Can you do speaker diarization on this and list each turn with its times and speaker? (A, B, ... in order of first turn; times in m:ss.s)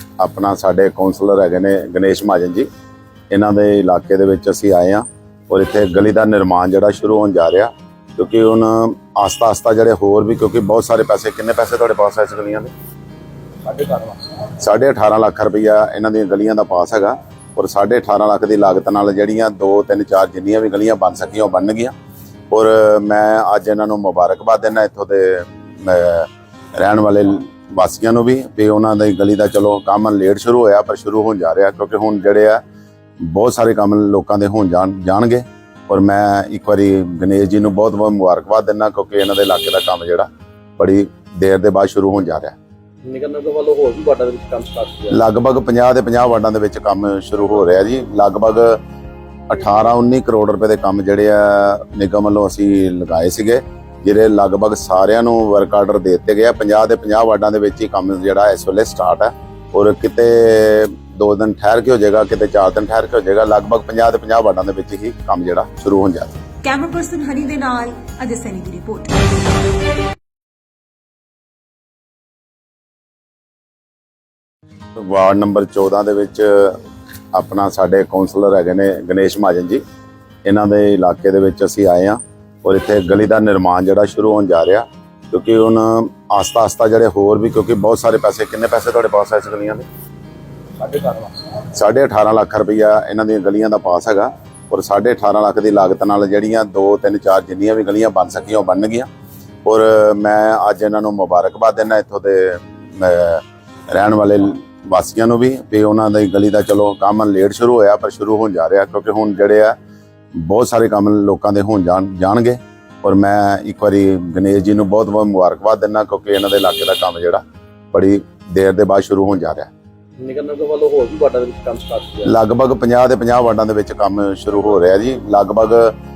0:00.2-0:02.7 A
0:03.3-0:12.7 A
0:13.7-0:14.2 B
0:14.5-0:21.9 A
0:22.5-0:32.6 A
0:33.2-0:40.3 A
0:40.8-0:42.6 A
0:43.0-0:45.2 B
0:45.1-0:48.8 A
0:49.5-1:06.4 A
1:06.6-1:09.2 C
1:15.0-1:16.8 A
1:17.3-1:19.8 A
1:20.4-1:29.9 A
1:30.8-1:31.3 B
1:31.7-1:39.1 A
1:39.6-1:49.8 A
1:50.4-1:59.7 A
2:00.2-2:02.3 B
2:02.2-2:05.9 A